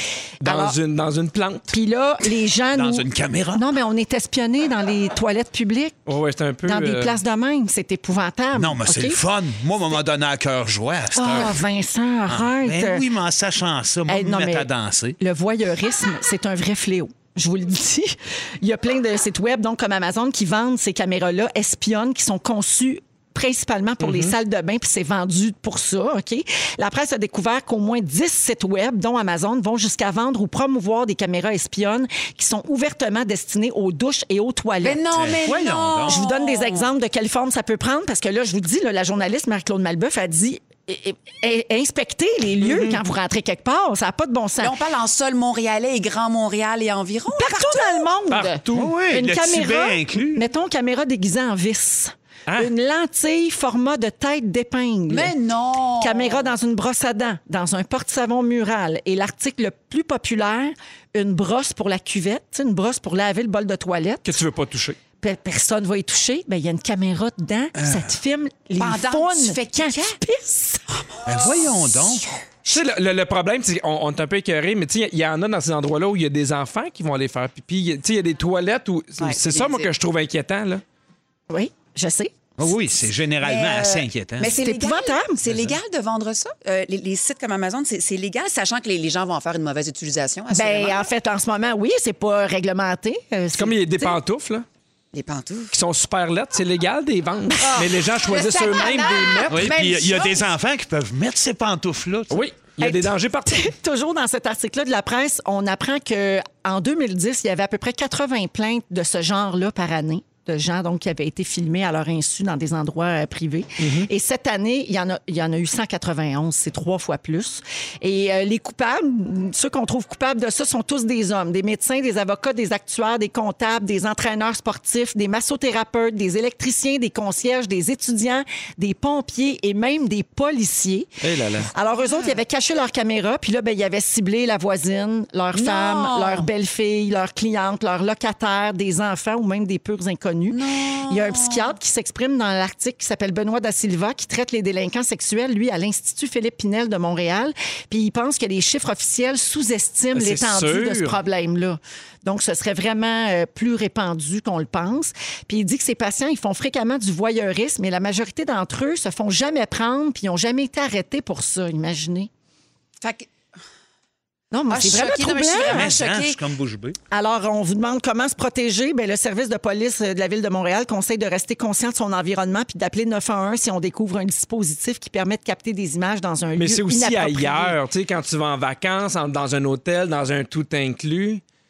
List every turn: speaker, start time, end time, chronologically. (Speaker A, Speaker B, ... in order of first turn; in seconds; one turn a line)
Speaker A: 0.4-0.8
Speaker B: 0.4-1.7
Speaker A: 1.7-6.0
Speaker C: 2.7-3.7
Speaker B: 6.1-7.2
Speaker A: 6.6-9.2
Speaker C: 8.6-11.6
Speaker A: 11.1-13.1
Speaker C: 12.3-15.2
Speaker A: 14.1-35.0
Speaker B: 24.0-24.4
Speaker D: 34.8-36.9
Speaker C: 35.1-36.2
Speaker A: 36.1-44.8
Speaker B: 42.6-43.0
Speaker D: 44.6-48.1
Speaker A: 47.3-55.4
Speaker B: 48.3-49.0
Speaker C: 48.7-50.4
Speaker D: 55.1-56.5
Speaker A: 56.0-64.4
Speaker B: 64.2-65.0
Speaker A: 65.2-70.8
Speaker C: 67.8-68.1
Speaker D: 68.8-70.2
Speaker C: 71.2-72.2
Speaker B: 72.7-80.8
Speaker D: 79.2-79.9
Speaker A: 81.5-82.3
Speaker C: 82.6-84.5
Speaker D: 83.4-91.1
Speaker A: 84.4-85.5
Speaker C: 85.5-85.8
Speaker A: 90.5-94.2
Speaker B: 93.6-94.7
Speaker D: 95.1-95.8
Speaker B: 95.7-100.0
Speaker D: 97.6-100.5
Speaker C: 99.5-102.4
Speaker B: 102.3-103.7
Speaker A: 102.8-162.3
Speaker B: 113.8-114.1
Speaker B: 131.2-131.7
Speaker D: 135.5-136.5
Speaker D: 140.5-141.7
Speaker B: 150.1-151.2
Speaker D: 163.0-163.3
Speaker A: 164.5-165.9
Speaker D: 164.7-166.4
Speaker C: 165.6-167.0
Speaker A: 167.1-177.8
Speaker B: 176.6-181.4